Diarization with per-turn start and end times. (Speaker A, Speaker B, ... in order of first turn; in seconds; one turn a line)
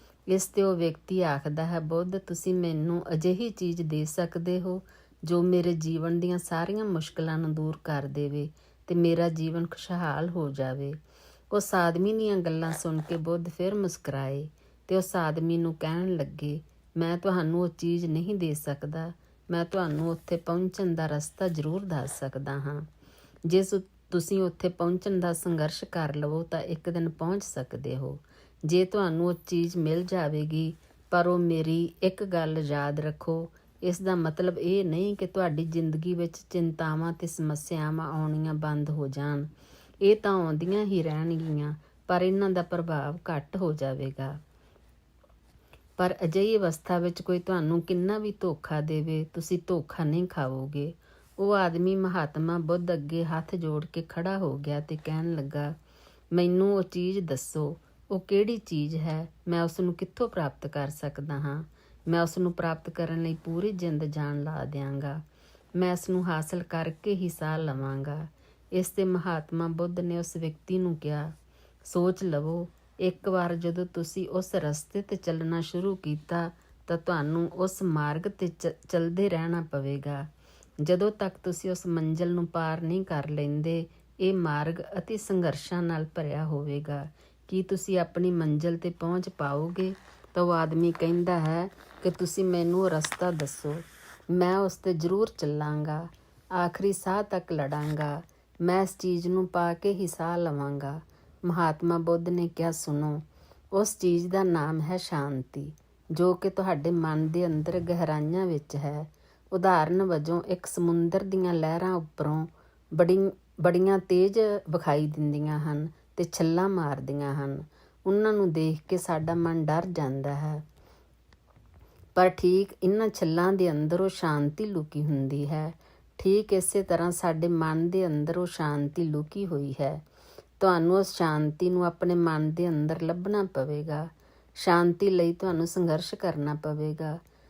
Speaker A: 0.3-11.0
Speaker A: 11.5-22.9
Speaker A: 23.5-39.5
Speaker A: 40.0-44.4
Speaker A: 46.0-55.7
Speaker A: 56.3-65.2
Speaker A: 65.8-71.3
Speaker A: 71.8-80.3
Speaker A: 80.8-120.6
Speaker A: 122.1-130.0
Speaker A: 130.6-137.2